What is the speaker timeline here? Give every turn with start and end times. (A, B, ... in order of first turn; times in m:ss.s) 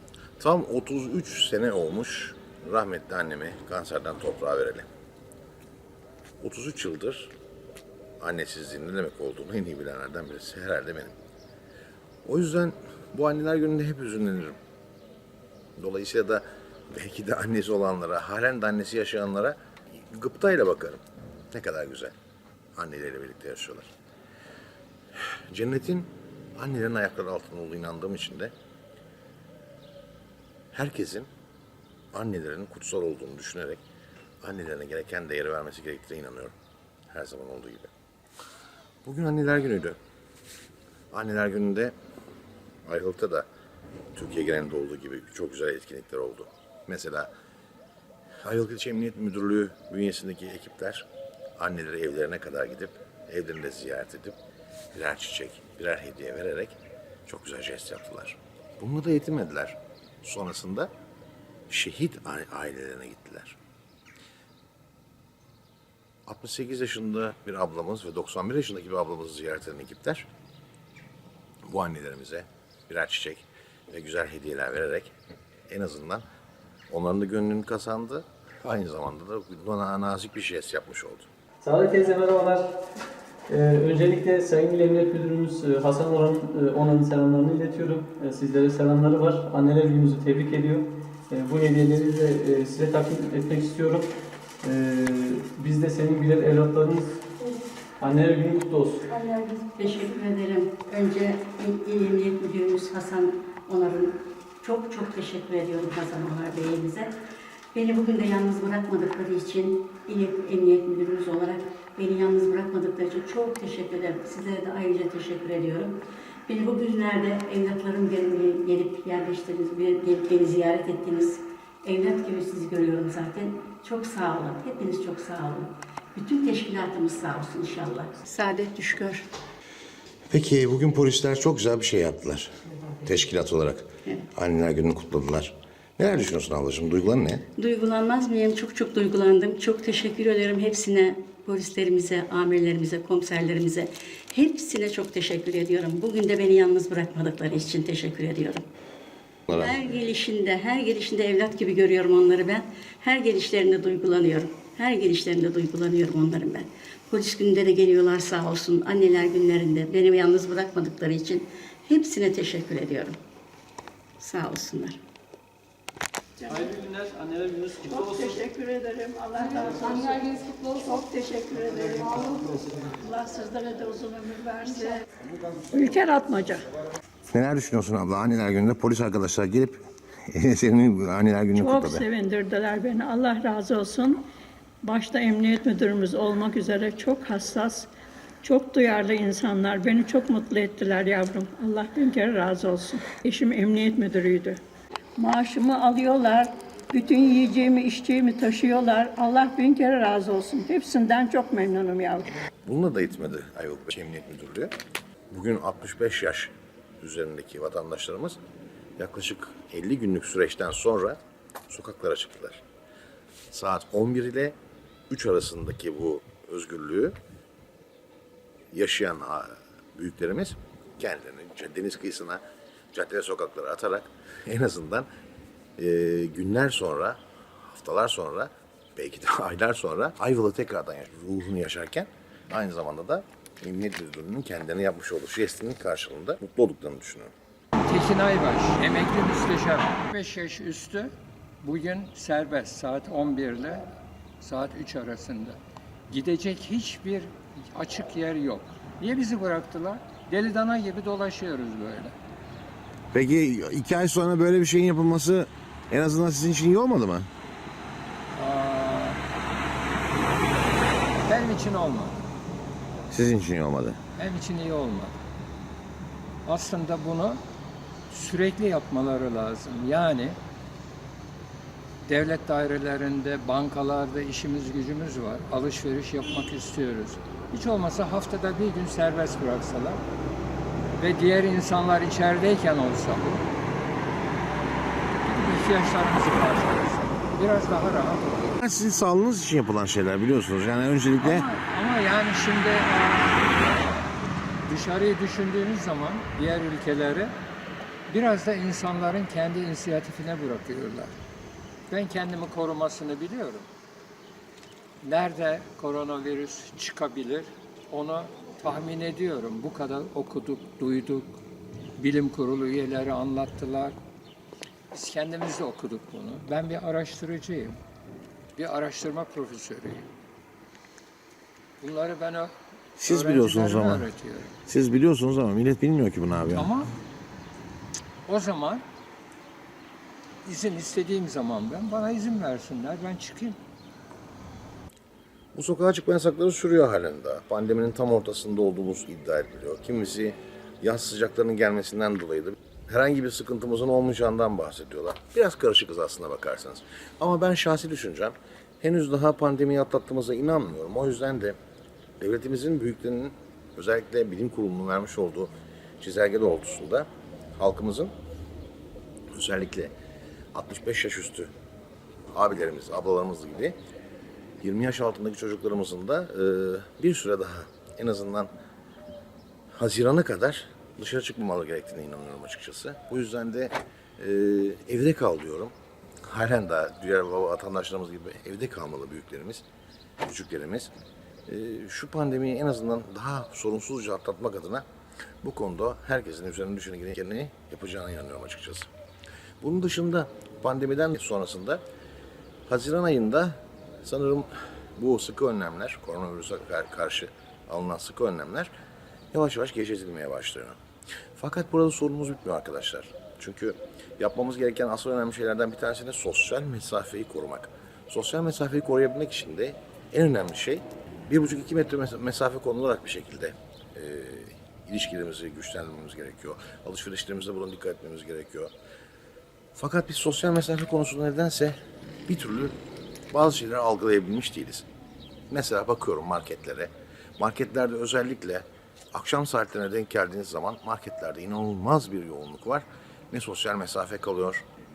0:00.4-0:04.8 A
0:06.4-0:07.3 A
0:08.2-0:11.1 A
0:12.2-0:14.6 A
0:15.8-0:22.1 A
0:22.8-0:23.9 A
0:25.5-0:28.5 A
0:30.7-0:31.3 A
0:32.1-0:33.8 A
0:34.4-0:36.5 A
0:37.1-0:37.9 A
0:39.0-0:40.0 A
0:41.1-0:41.9 A
0:42.8-0:43.4 A
0:44.1-0:47.3 A
0:48.4-0:54.4 A
0:54.9-1:00.9 A
1:01.7-1:03.6 A
1:06.3-1:10.3 A
1:11.6-1:15.1 A
1:15.7-1:16.2 A
1:16.9-1:21.3 A
1:21.6-1:22.6 B
1:23.5-1:30.8 B
1:31.4-1:34.0 B
1:34.7-1:37.0 B
1:38.0-1:39.0 B
1:39.1-1:47.1 C
1:47.7-2:09.3 C
2:10.3-2:12.5 A
2:13.0-2:17.4 A
2:17.5-2:28.6 C
2:29.5-2:43.2 C
2:44.2-2:45.0 C
2:46.4-2:46.7 D
2:46.6-2:47.8 B
2:47.9-2:52.3 D
2:52.9-2:54.9 D
2:55.7-2:56.6 D
2:57.3-3:02.0 A
3:01.6-3:04.2 D
3:04.8-3:07.9 D
3:08.4-3:14.6 D
3:15.2-3:22.3 D
3:22.6-3:24.7 A
3:25.3-3:28.4 A
3:29.0-3:32.6 A
3:33.5-3:34.5 A
3:35.1-3:37.1 A
3:38.7-3:42.4 A
3:42.9-3:45.1 A
3:45.8-3:57.3 A
3:57.8-4:03.9 E
4:04.4-4:05.6 E
4:06.1-4:12.1 E
4:13.1-4:17.3 A
4:18.3-4:19.2 E
4:21.2-4:22.2 E
4:23.1-4:24.0 A
4:24.2-4:25.2 E
4:26.4-4:27.4 E
4:28.1-4:30.4 E
4:32.0-4:40.0 E
4:41.0-4:43.4 E
4:45.2-4:48.5 E
4:48.6-4:51.5 A
4:51.2-4:53.5 E
4:54.7-4:57.3 E
4:58.1-5:01.1 E
5:01.9-5:03.7 E
5:05.0-5:11.4 E
5:12.0-5:13.9 E
5:14.9-5:17.8 E
5:18.6-5:20.1 E
5:21.8-5:24.5 E
5:23.0-5:24.1 A
5:24.6-5:26.7 A
5:26.5-5:26.9 E
5:28.2-5:28.8 E
5:30.4-5:33.6 E
5:35.5-5:51.6 A
5:52.2-5:58.1 A
5:59.3-5:59.9 A
6:00.5-6:01.5 A
6:02.3-6:03.7 A
6:04.6-6:08.5 A
6:09.7-6:19.6 A
6:20.2-6:20.9 A
6:21.5-6:24.8 A
6:25.4-6:28.9 A
6:29.6-6:31.8 A
6:32.7-6:38.7 A
6:39.3-6:40.8 A
6:41.4-6:58.7 A
6:59.7-7:02.7 A
7:03.3-7:04.9 A
7:05.5-7:14.6 A